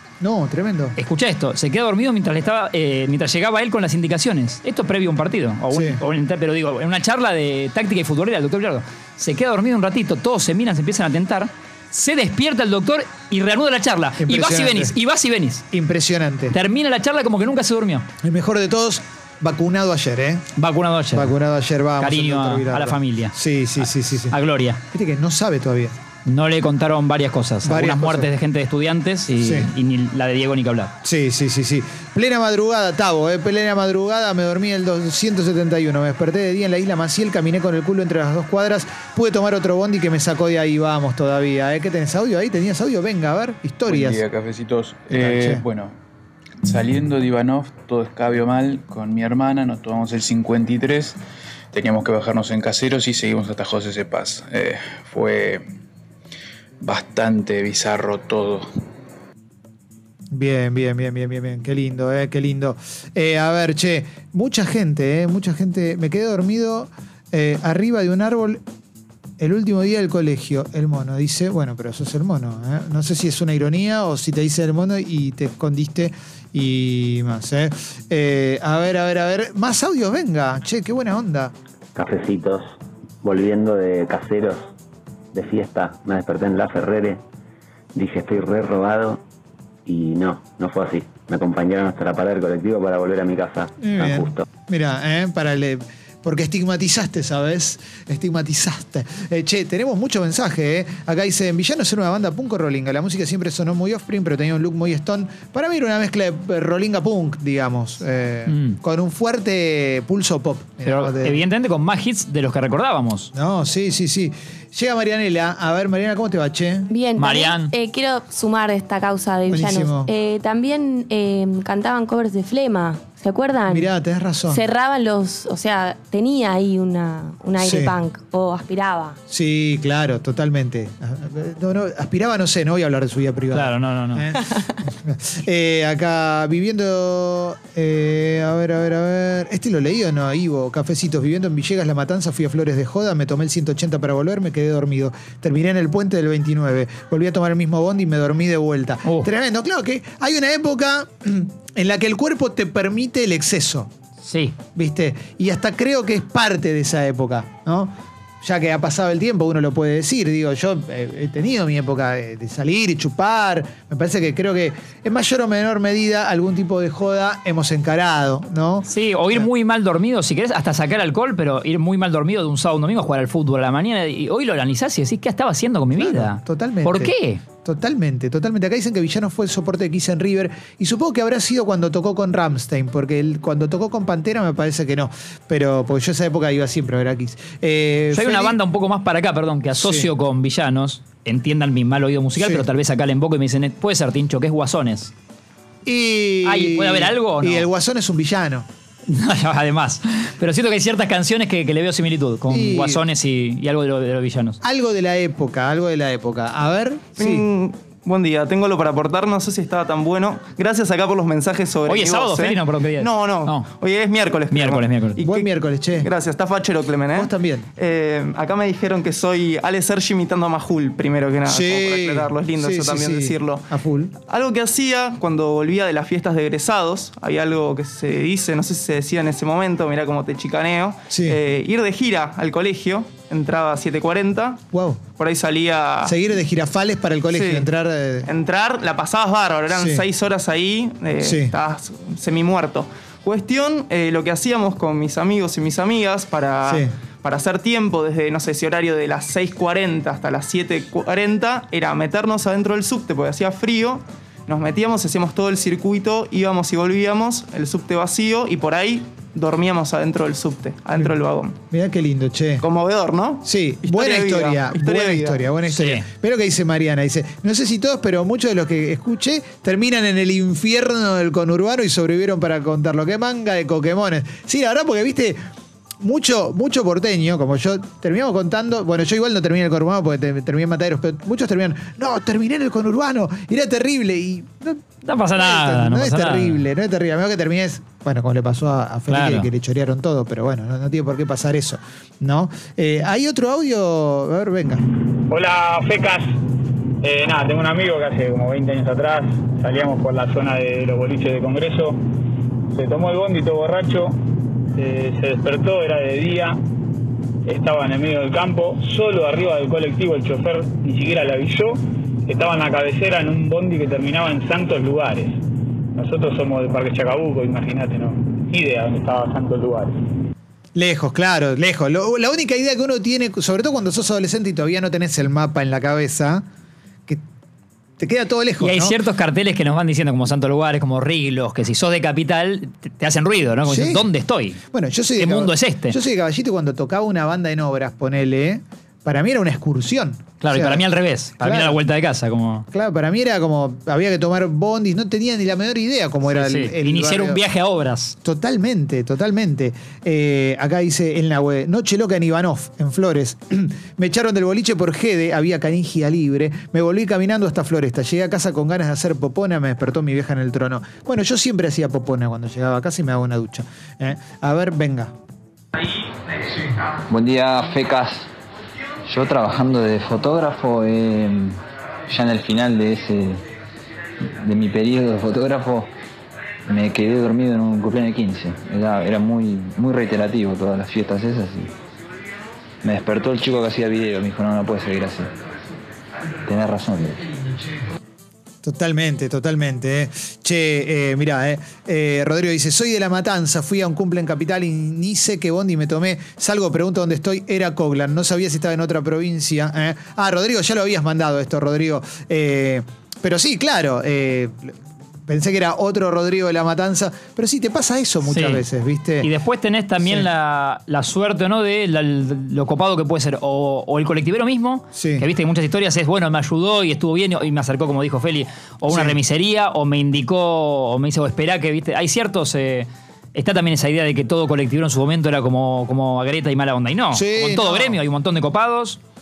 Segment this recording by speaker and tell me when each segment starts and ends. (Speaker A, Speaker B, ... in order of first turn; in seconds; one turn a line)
Speaker A: 0.2-1.0
Speaker B: 1.0-15.6
Speaker A: 5.7-6.0
Speaker A: 14.2-14.9
Speaker A: 15.7-16.6
Speaker B: 16.5-18.1
Speaker A: 18.2-20.5
Speaker B: 20.6-21.3
Speaker A: 21.1-24.4
Speaker B: 22.0-24.8
Speaker A: 24.9-26.0
Speaker B: 26.2-30.9
Speaker A: 27.6-28.3
Speaker A: 29.4-29.7
Speaker A: 31.0-44.2
Speaker C: 43.9-46.0
Speaker A: 45.1-45.6
Speaker C: 46.6-51.2
Speaker C: 51.7-55.6
Speaker C: 56.8-58.7
Speaker A: 60.3-68.6
Speaker A: 69.4-81.5
Speaker D: 81.9-84.7
Speaker D: 85.3-87.2
Speaker D: 87.9-89.2
Speaker D: 89.8-94.4
Speaker A: 93.8-111.4
Speaker B: 108.5-108.8
Speaker B: 110.8-113.3
Speaker A: 113.3-116.9
Speaker E: 116.9-123.9
Speaker B: 117.2-117.7
Speaker A: 119.5-120.1
Speaker A: 123.7-124.6
Speaker E: 124.5-129.2
Speaker A: 127.6-128.0
Speaker A: 129.3-153.9
Speaker B: 133.5-134.2
Speaker B: 149.0-149.3
Speaker B: 154.2-154.6
Speaker A: 154.7-169.5
Speaker B: 168.8-177.4
Speaker A: 175.9-188.6
Speaker B: 188.1-195.1
Speaker A: 189.7-190.1
Speaker A: 192.3-192.6
Speaker A: 195.8-198.7
Speaker B: 196.4-197.7
Speaker B: 199.1-204.6
Speaker A: 202.5-203.0
Speaker A: 204.6-207.5
Speaker F: 207.2-223.7
Speaker B: 211.8-213.7
Speaker B: 214.5-215.2
Speaker A: 215.2-216.1
Speaker A: 217.1-217.7
Speaker A: 221.5-224.1
Speaker F: 224.3-234.6
Speaker A: 231.1-231.4
Speaker A: 234.7-235.0
Speaker F: 235.2-236.2
Speaker A: 236.0-238.3
Speaker F: 237.3-237.7
Speaker F: 238.2-261.6
Speaker A: 239.7-240.0
Speaker A: 241.2-241.5
Speaker A: 261.7-262.6
Speaker F: 262.6-265.4
Speaker A: 263.4-275.4
Speaker B: 265.7-266.0
Speaker A: 276.0-284.8
Speaker B: 285.0-286.6
Speaker A: 285.3-294.8
Speaker B: 289.1-289.5
Speaker G: 295.3-296.4
Speaker G: 297.0-302.0
Speaker G: 302.7-304.2
Speaker G: 304.8-306.6
Speaker G: 307.4-315.4
Speaker G: 315.9-320.0
Speaker A: 320.7-326.4
Speaker A: 328.0-329.0
Speaker B: 328.6-334.6
Speaker A: 333.6-334.1
Speaker A: 334.7-340.8
Speaker B: 335.2-336.0
Speaker B: 340.4-342.6
Speaker A: 341.4-341.8
Speaker A: 342.7-347.4
Speaker B: 346.3-348.1
Speaker A: 348.2-365.1
Speaker H: 367.1-368.3
Speaker H: 369.1-373.4
Speaker H: 374.2-375.9
Speaker H: 376.7-381.7
Speaker H: 382.8-385.3
Speaker H: 386.4-387.2
Speaker A: 388.6-409.3
Speaker B: 408.2-408.6
Speaker B: 409.2-429.0
Speaker A: 410.0-410.3
Speaker A: 414.9-415.2
Speaker A: 418.9-419.2
Speaker A: 427.1-428.0